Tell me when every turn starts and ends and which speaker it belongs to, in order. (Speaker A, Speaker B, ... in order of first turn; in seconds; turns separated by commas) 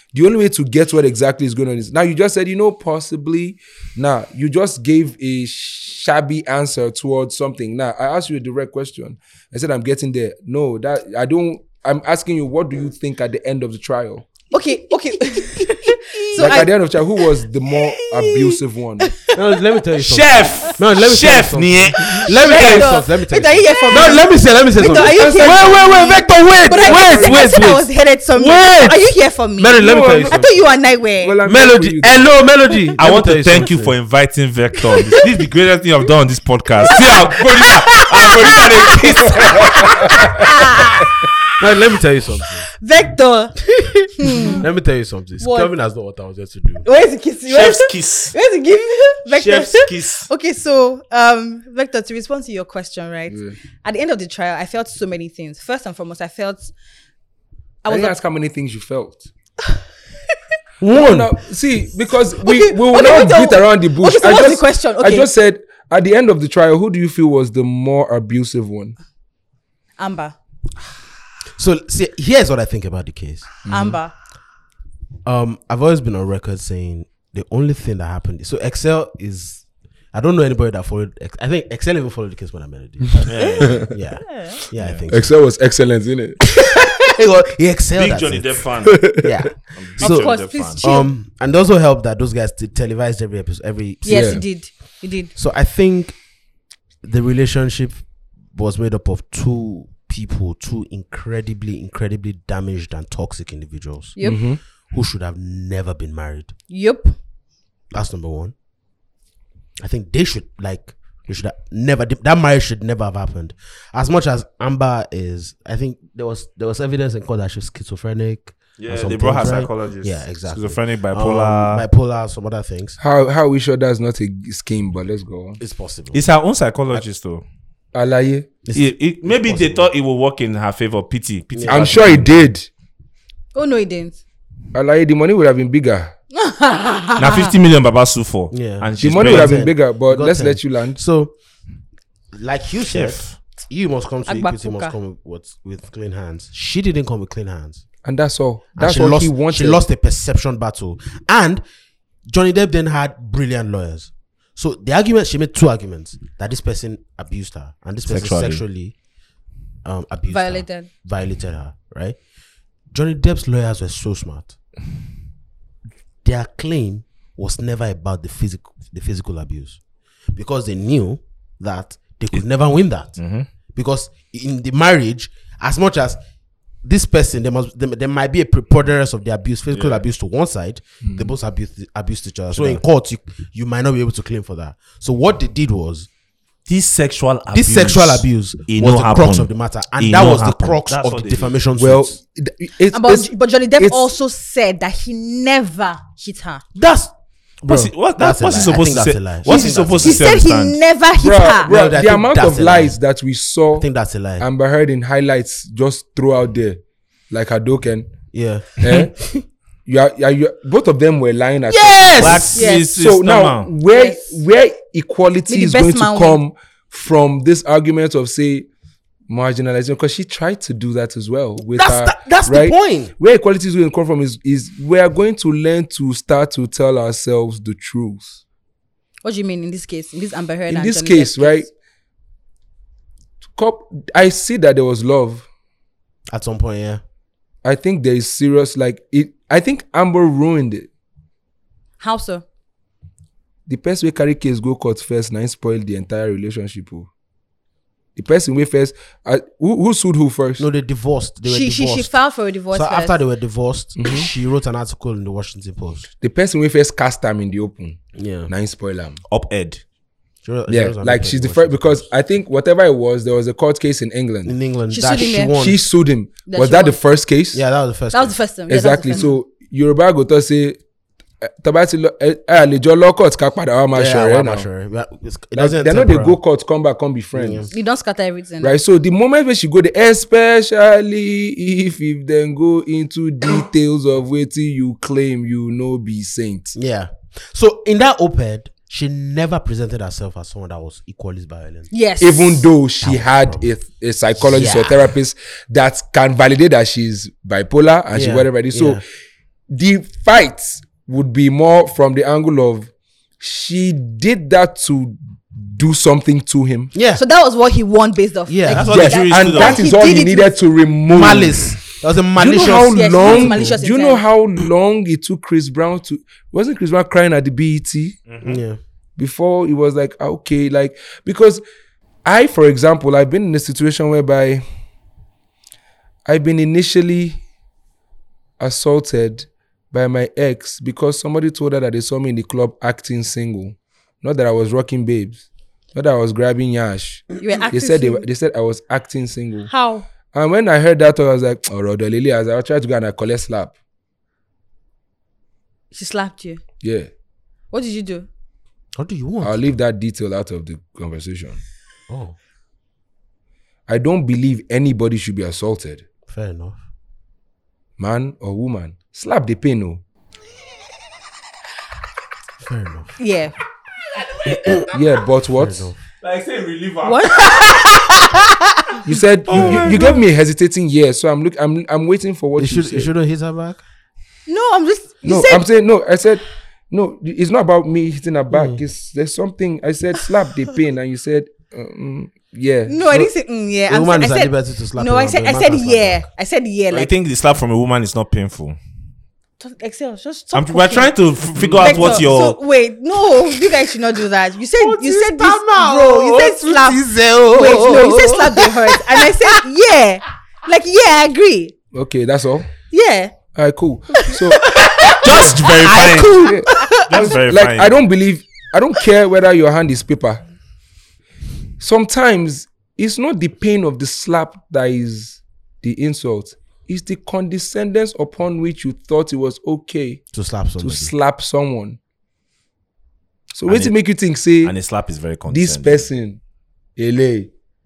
Speaker A: 0.1-14.3, Speaker B: 14.5-16.7, Speaker C: 15.4-16.7, Speaker A: 16.4-19.1, Speaker B: 18.1-19.3, Speaker C: 19.3-29.1, Speaker D: 20.0-22.9, Speaker B: 22.2-31.4, Speaker A: 24.8-26.1, Speaker A: 26.7-27.6, Speaker C: 29.6-30.6, Speaker A: 29.7-30.5, Speaker A: 31.2-32.2, Speaker C: 31.4-34.0, Speaker D: 33.0-40.1, Speaker B: 36.8-41.1, Speaker A: 39.8-40.2, Speaker C: 41.6-42.7, Speaker B: 42.7-44.7, Speaker C: 43.8-46.9, Speaker B: 45.4-45.7, Speaker B: 46.8-56.7, Speaker D: 47.5-48.4, Speaker D: 49.3-50.3, Speaker A: 53.3-53.6, Speaker B: 57.8-58.1, Speaker A: 57.9-59.3, Speaker C: 60.8-61.3, Speaker A: 60.9-69.0, Speaker B: 62.4-65.3, Speaker B: 70.0-70.4, Speaker C: 71.6-73.5, Speaker A: 73.7-74.0, Speaker B: 73.7-74.1, Speaker C: 75.2-85.3, Speaker D: 83.2-83.9, Speaker A: 83.2-83.9, Speaker B: 84.2-84.6, Speaker D: 84.8-85.1, Speaker A: 85.1-86.5, Speaker C: 86.6-88.6, Speaker D: 88.0-89.2, Speaker A: 88.8-89.5, Speaker C: 89.1-94.4, Speaker D: 89.8-90.8, Speaker B: 90.0-91.1, Speaker B: 94.0-95.3, Speaker A: 94.1-94.4, Speaker C: 95.3-96.2, Speaker C: 97.0-104.2, Speaker B: 104.2-104.4, Speaker A: 104.2-104.6, Speaker C: 104.9-106.5, Speaker B: 106.7-107.2, Speaker C: 107.9-108.5, Speaker C: 109.8-123.0, Speaker D: 118.8-121.8, Speaker A: 123.0-125.6, Speaker C: 125.6-126.2, Speaker D: 126.1-127.4, Speaker A: 127.9-128.5, Speaker C: 128.7-129.9, Speaker D: 128.7-132.4, Speaker C: 131.5-132.0, Speaker A: 131.7-132.7, Speaker B: 133.6-134.2, Speaker A: 134.7-136.1, Speaker B: 136.3-137.5, Speaker D: 137.2-139.6, Speaker C: 138.5-141.3, Speaker A: 139.0-141.0, Speaker C: 142.3-147.8, Speaker D: 142.9-143.3, Speaker B: 144.3-144.9, Speaker A: 148.1-149.8, Speaker C: 148.8-151.6, Speaker C: 152.3-158.9, Speaker D: 158.1-158.6, Speaker C: 159.8-162.2, Speaker B: 160.3-160.9, Speaker C: 162.9-164.6, Speaker C: 166.2-169.8, Speaker C: 170.3-173.2, Speaker D: 173.2-173.5, Speaker C: 173.8-176.2, Speaker C: 176.8-186.1, Speaker D: 179.7-180.0, Speaker A: 181.0-181.3, Speaker D: 182.5-182.8, Speaker D: 186.7-191.6, Speaker C: 187.5-192.2, Speaker A: 191.8-194.1, Speaker B: 192.9-196.6, Speaker C: 196.8-200.4, Speaker D: 197.7-200.8, Speaker B: 199.5-201.7, Speaker A: 201.2-203.9, Speaker C: 201.7-203.0, Speaker C: 203.8-204.5, Speaker A: 204.4-208.1, Speaker C: 208.3-209.4, Speaker A: 208.8-209.1, Speaker A: 209.9-218.7, Speaker C: 211.7-212.7, Speaker D: 212.2-213.7, Speaker B: 212.5-212.9, Speaker B: 213.9-214.3, Speaker B: 215.5-216.4, Speaker A: 219.3-228.4, Speaker C: 221.6-223.1, Speaker B: 229.2-231.7, Speaker A: 230.7-231.7, Speaker A: 233.6-235.5, Speaker C: 236.3-237.0, Speaker A: 237.6-240.9, Speaker B: 242.0-242.4, Speaker A: 243.7-247.1, Speaker A: 248.2-250.7, Speaker C: 250.6-252.1, Speaker B: 251.4-253.2, Speaker C: 252.7-256.1, Speaker A: 254.0-254.3, Speaker A: 256.2-259.2, Speaker C: 258.1-258.5, Speaker D: 259.3-259.8, Speaker C: 260.4-262.1, Speaker A: 260.7-264.5, Speaker C: 264.5-265.9, Speaker B: 264.9-265.6, Speaker A: 265.5-267.6, Speaker B: 266.5-267.0, Speaker C: 267.5-268.4, Speaker B: 268.1-269.3, Speaker A: 268.7-270.8, Speaker A: 271.4-274.7, Speaker C: 273.9-276.4, Speaker A: 275.6-277.7, Speaker C: 277.3-277.7, Speaker B: 277.7-278.8, Speaker A: 278.6-286.8, Speaker C: 286.8-291.9, Speaker B: 291.9-292.7, Speaker A: 292.2-299.0, Speaker C: 293.0-293.7, Speaker C: 294.4-295.1, Speaker C: 298.1-299.0, Speaker A: 299.7-306.9, Speaker C: 306.9-307.2, Speaker B: 307.2-310.5, Speaker C: 308.5-309.1, Speaker D: 308.7-309.9, Speaker A: 308.9-311.8, Speaker C: 311.1-313.8, Speaker A: 312.4-318.2, Speaker B: 312.9-314.2, Speaker D: 318.3-318.6, Speaker C: 318.4-318.8, Speaker A: 319.2-321.6, Speaker A: 322.2-324.6, Speaker A: 326.3-327.4, Speaker A: 328.6-339.7, Speaker B: 337.4-338.3, Speaker B: 339.7-340.1, Speaker A: 340.3-343.7, Speaker B: 345.9-346.6, Speaker A: 346.8-347.1, Speaker B: 347.7-348.3, Speaker C: 349.0-349.6, Speaker A: 349.4-351.6, Speaker C: 352.1-352.4, Speaker A: 353.9-356.0, Speaker C: 356.3-356.8, Speaker A: 358.0-360.0, Speaker C: 362.6-363.1, Speaker B: 363.2-363.6, Speaker D: 364.2-364.9, Speaker A: 364.9-365.9, Speaker C: 365.6-366.0, Speaker D: 366.2-368.3, Speaker B: 367.0-369.0, Speaker A: 369.1-373.1, Speaker D: 369.5-370.2, Speaker C: 369.5-369.9, Speaker C: 372.6-373.8, Speaker B: 374.5-375.6, Speaker A: 375.2-383.3, Speaker C: 378.5-378.8, Speaker B: 382.9-387.1, Speaker C: 383.9-386.3, Speaker D: 386.9-388.8, Speaker B: 389.6-391.1, Speaker D: 390.5-392.6, Speaker C: 391.6-392.2, Speaker B: 391.8-401.7, Speaker C: 394.8-399.6, Speaker A: 401.9-402.7, Speaker B: 402.9-403.3, Speaker A: 403.5-404.6, Speaker B: 404.1-407.3, Speaker C: 404.8-406.5, Speaker D: 405.1-407.9, Speaker A: 406.4-410.4, Speaker A: 411.8-420.2, Speaker C: 420.3-421.1, Speaker A: 420.8-422.0, Speaker A: 423.5-424.7, Speaker D: 423.7-423.9, Speaker D: 424.6-426.1, Speaker A: 425.5-426.4, Speaker A: 427.0-427.5